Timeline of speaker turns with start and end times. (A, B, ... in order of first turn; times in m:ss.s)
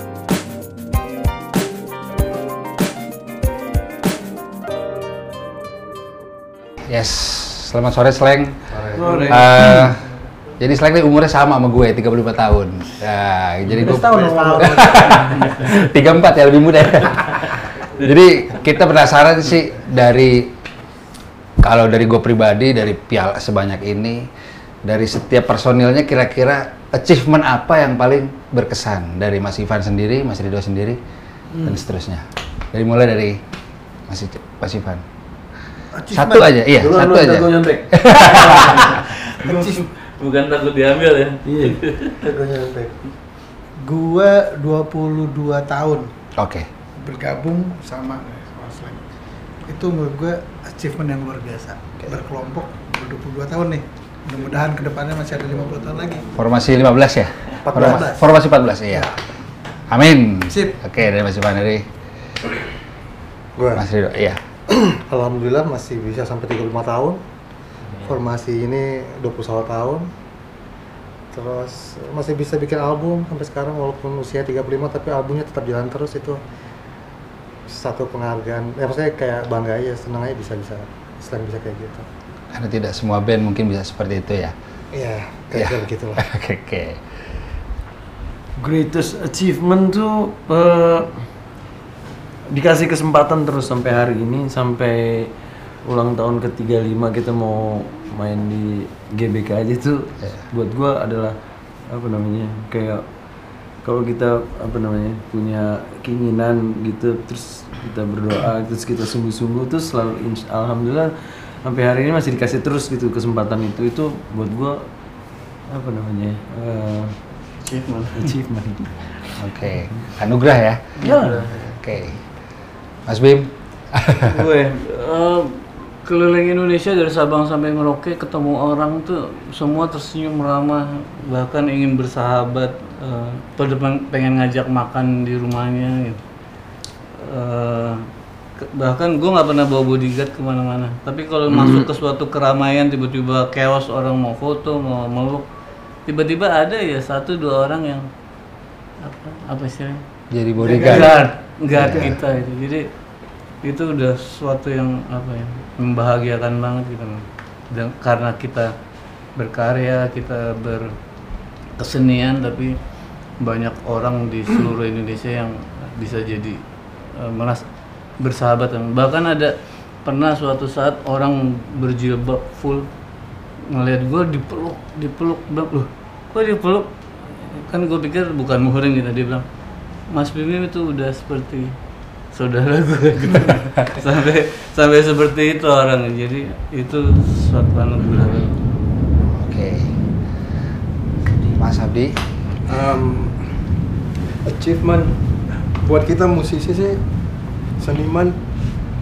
0:06.9-0:08.7 A
0:08.7-0:09.0 B
0:09.0-0:09.9 C
0:09.0-0:09.5 D
0:09.3-0:10.0 A
0:10.6-0:20.5 A
0:13.8-0:15.1 B
0:14.1-0:15.0 E
0:21.6-0:24.3 A
0:24.8-0:31.0 A
0:31.6-0:33.4 A
0:34.1-0:35.0 A
0:35.9-0:36.5 E
0:36.1-0:38.9 A
0:36.7-0:39.0 C
0:39.3-0:39.8 E
0:40.2-0:42.2 D
0:41.4-0:41.8 C
0:42.3-0:42.9 B
0:43.8-0:46.1 E
0:46.4-0:46.7 A
0:47.0-0:49.0 E
0:49.7-0:56.3 E
0:56.4-0:59.1 A
0:57.6-0:58.0 B
0:57.8-0:58.2 E
0:59.9-1:01.8 A
1:03.6-1:03.8 B
1:03.8-1:04.4 A
1:04.7-1:07.2 B
1:08.0-1:10.1 B
1:11.3-1:16.4 B
1:17.7-1:22.1 B
1:22.5-1:24.6 A
1:24.9-1:26.2 B
1:25.6-1:27.0 A
1:28.6-1:31.3 C
1:32.5-1:35.3 C
1:35.8-1:43.1 C
1:43.8-1:54.9 C
1:55.7-1:57.2 C
1:57.6-1:58.3 D
1:58.1-1:59.4 C
1:59.4-2:00.8 A
2:01.0-2:01.8 D
2:01.0-2:01.5 C
2:01.6-2:02.2 A
2:03.1-2:04.5 A
2:04.2-2:16.2 D
2:17.2-2:18.0 D
2:18.6-2:25.5 D
2:21.5-2:21.8 C
2:26.1-2:28.0 D
2:29.0-2:30.0 D
2:30.3-2:31.2 A
2:30.6-2:31.3 E
2:30.8-2:32.9 D
2:31.7-2:32.2 A
2:33.6-2:38.7 D
2:39.4-2:40.9 D
2:41.8-2:42.7 D
2:43.4-2:46.6 D
2:47.2-2:47.6 D
2:48.2-2:52.9 D
2:53.7-2:59.4 D
3:00.1-3:01.7 D
3:02.3-3:08.6 D
3:09.2-3:09.9 A
3:11.5-3:12.2 A
3:12.7-3:13.5 F
3:14.4-3:17.0 F
3:17.8-3:18.4 F